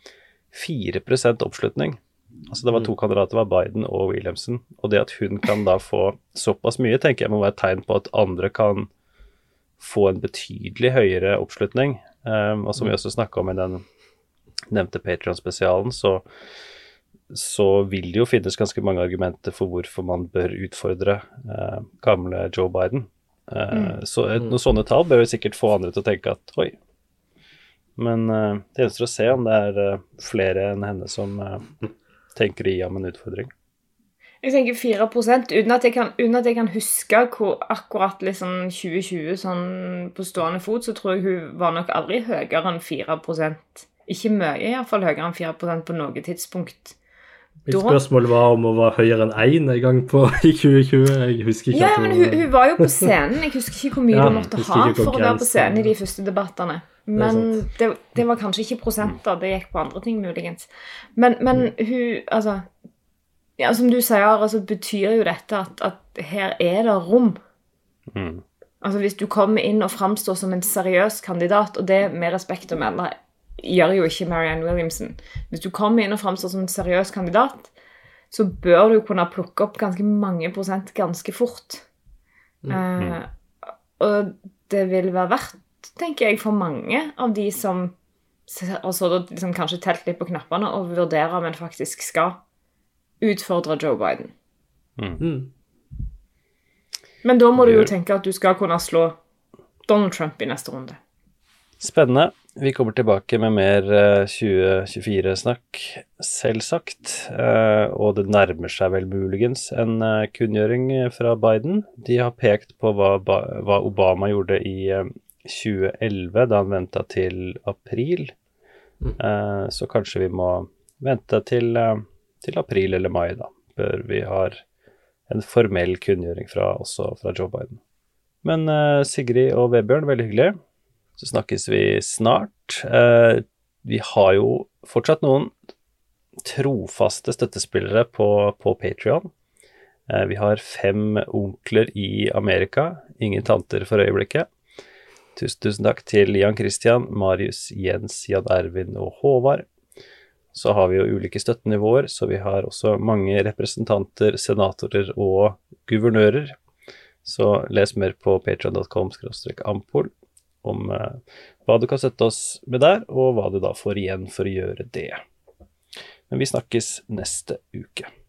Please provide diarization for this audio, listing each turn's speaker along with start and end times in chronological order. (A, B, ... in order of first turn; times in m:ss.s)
0:00.5-0:08.9 A
0:09.8-0:13.8 A
0:14.7-0:16.2 A
0:17.3-0:26.8 A
0:23.7-0:24.0 B
0:28.0-0:31.7 A
0:32.3-0:33.5 A
0:34.4-0:47.0 B
0:47.6-0:53.1 C
0:47.7-0:48.0 B
0:51.7-1:02.7 B
0:54.1-0:55.9 C
0:57.2-0:57.5 C
1:03.6-1:07.4 B
1:08.1-1:08.4 A
1:08.8-1:17.7 B
1:18.3-1:21.8 B
1:22.7-1:23.3 B
1:24.0-1:27.9 B
1:28.5-1:32.4 B
1:33.2-1:34.3 B
1:35.0-1:35.2 A
1:35.2-1:35.5 C
1:37.2-1:39.2 B
1:37.6-1:37.9 A
1:39.9-1:41.0 B
1:41.8-1:58.3 A
1:59.2-2:04.6 A
2:05.3-2:07.8 A
2:08.4-2:10.6 A
2:11.2-2:15.5 A
2:16.4-2:19.3 A
2:20.1-2:24.5 A
2:25.4-2:29.6 A
2:30.5-2:36.6 A
2:37.2-2:40.1 A
2:40.6-2:45.2 A
2:46.3-2:48.1 A